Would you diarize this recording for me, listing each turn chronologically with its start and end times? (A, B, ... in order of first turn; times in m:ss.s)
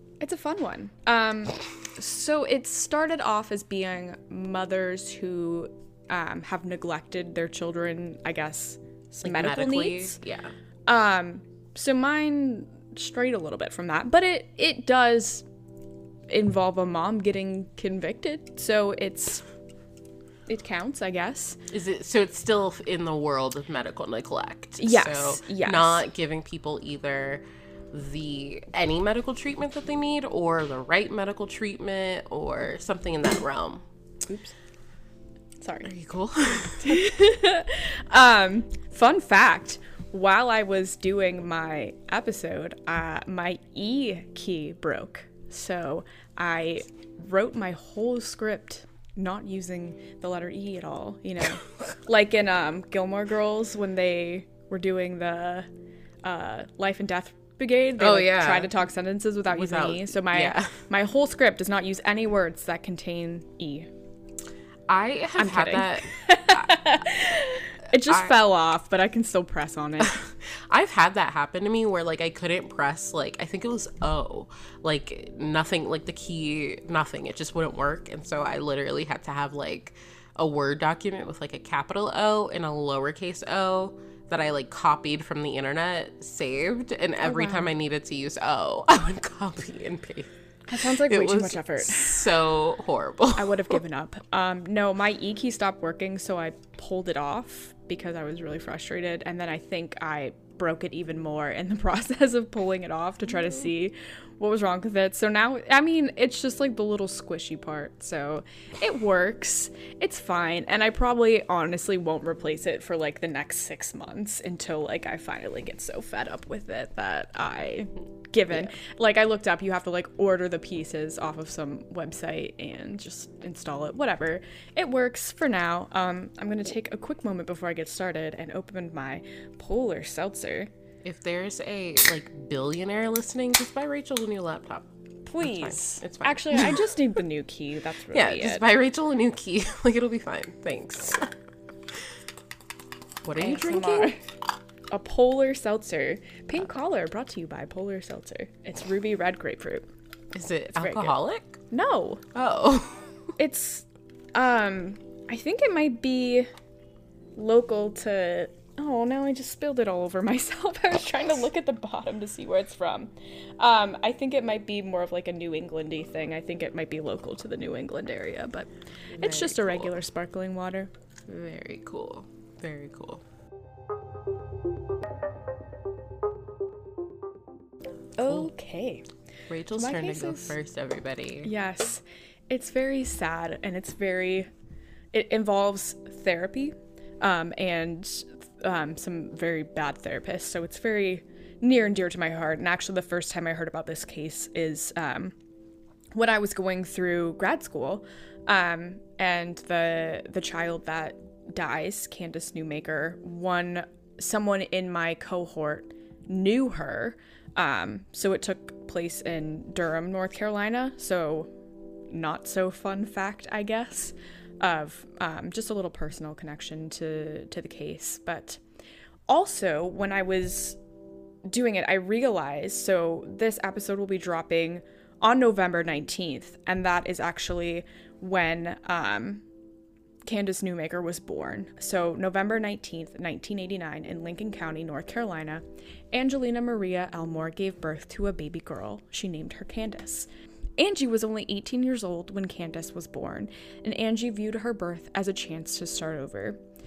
0:00.2-0:10.2 A
0:09.2-0:10.5 B
0:10.9-0:15.4 A
0:16.3-0:19.4 A
0:20.5-0:21.6 A
0:21.7-0:33.8 B
0:24.8-0:26.0 A
0:35.6-0:35.9 A
0:35.8-0:37.0 B
0:36.8-0:55.7 A
0:56.2-1:03.9 A
0:58.0-0:58.7 B
0:59.5-1:00.8 B
1:04.9-1:07.0 B
1:05.4-1:10.2 A
1:08.0-1:08.4 B
1:10.0-1:33.8 B
1:27.2-1:27.7 A
1:30.7-1:32.3 A
1:33.3-2:10.7 A
2:11.0-2:14.9 B
2:15.2-2:18.6 A
2:15.4-2:16.9 B
2:18.1-2:21.3 B
2:23.2-2:24.2 B
2:23.3-2:24.2 A
2:24.9-2:29.9 A
2:30.3-2:31.6 B
2:30.7-2:31.1 A
2:31.7-2:32.2 A
2:32.3-2:33.2 B
2:33.4-2:36.5 A
2:37.4-2:50.9 A
2:49.1-2:49.9 B
2:51.3-2:53.2 B
2:58.2-2:59.1 A
2:59.5-3:01.5 B
2:59.7-3:00.6 A
3:01.4-3:04.5 A
3:05.1-3:15.3 A
3:16.1-3:31.5 A
3:32.1-3:38.6 A
3:39.3-3:40.8 A
3:41.5-3:49.4 A
3:50.2-4:06.6 A